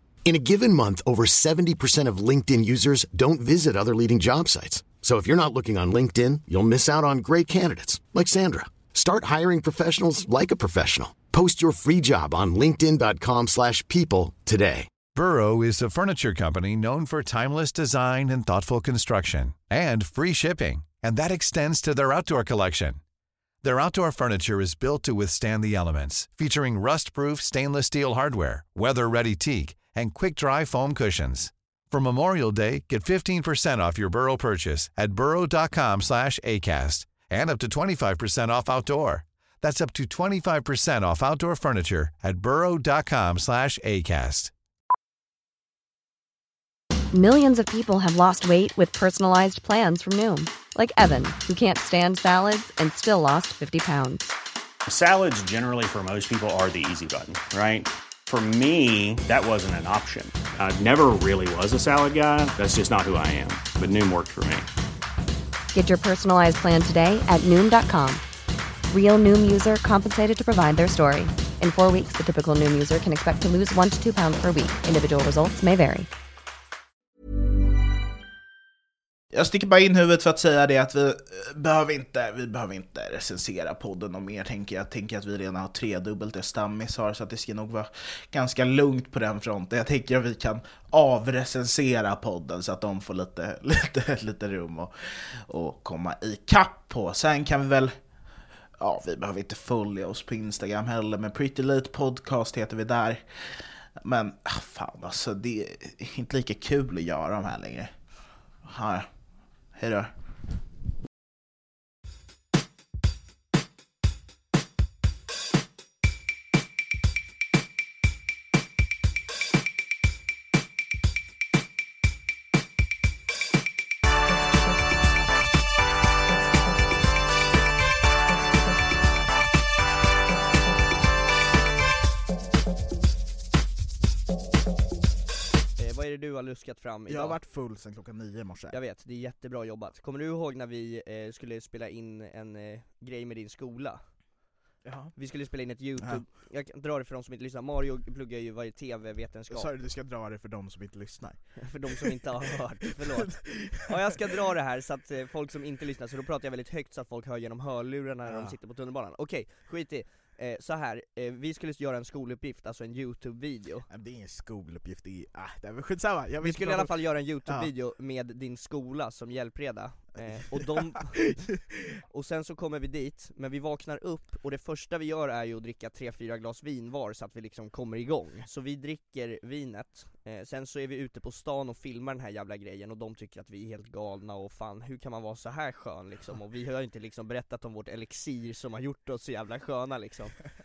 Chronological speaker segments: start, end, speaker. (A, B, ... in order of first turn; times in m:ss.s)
0:00.2-0:14.9 A
0:15.1-0:23.0 B
0:23.6-0:44.5 B
0:47.1-0:54.3 C
0:54.8-1:04.7 D
1:05.7-1:08.2 C
1:08.9-1:16.1 C
1:19.3-1:37.9 E
1:38.8-1:47.9 E
1:48.6-1:49.1 E
1:49.7-1:50.1 E
2:15.8-2:17.4 F
2:17.1-2:18.8 E
2:18.7-2:24.0 F
2:24.8-2:25.1 E
2:25.2-2:29.7 F
2:26.0-2:26.2 E
2:29.5-2:32.2 E
2:31.6-2:43.9 F
2:33.0-2:34.2 E
2:38.2-2:38.5 E
2:43.9-2:47.7 E
2:46.4-2:51.4 F
2:50.1-2:51.9 E
2:52.1-3:10.4 F